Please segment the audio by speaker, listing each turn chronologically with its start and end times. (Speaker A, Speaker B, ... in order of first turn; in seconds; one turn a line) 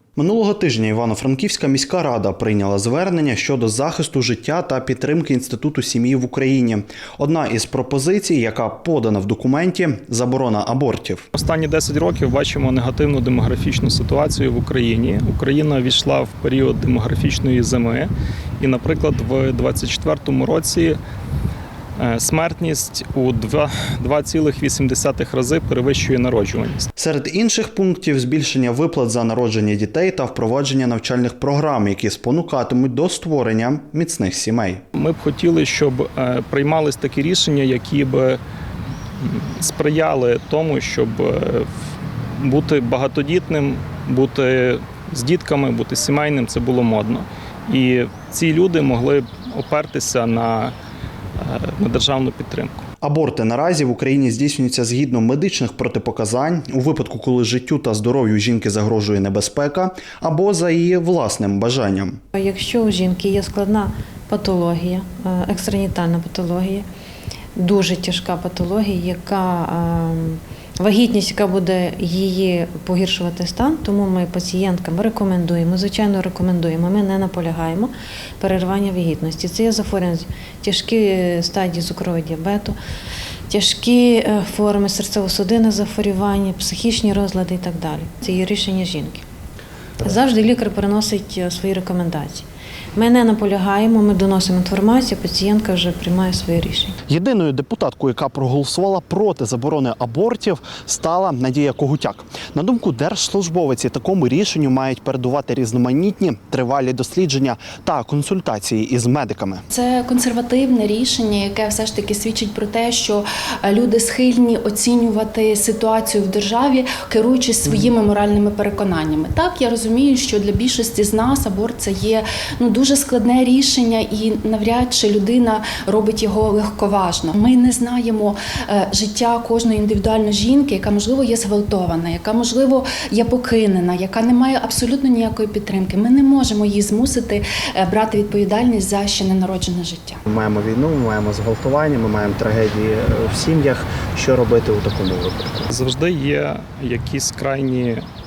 Speaker A: 0.2-11.2
Speaker B: 11.3-21.0
Speaker B: 22.0-26.9
Speaker A: 27.0-34.8
Speaker B: 35.0-38.4
Speaker B: 39.2-41.7
Speaker B: 42.4-50.8
Speaker B: 51.4-52.8
Speaker A: 53.0-62.2
Speaker C: 62.3-66.8
Speaker C: 67.5-82.8
Speaker C: 83.5-89.2
Speaker C: 90.0-97.0
Speaker A: 97.1-109.6
Speaker D: 109.7-140.2
Speaker A: 140.3-145.7
Speaker B: 145.7-148.0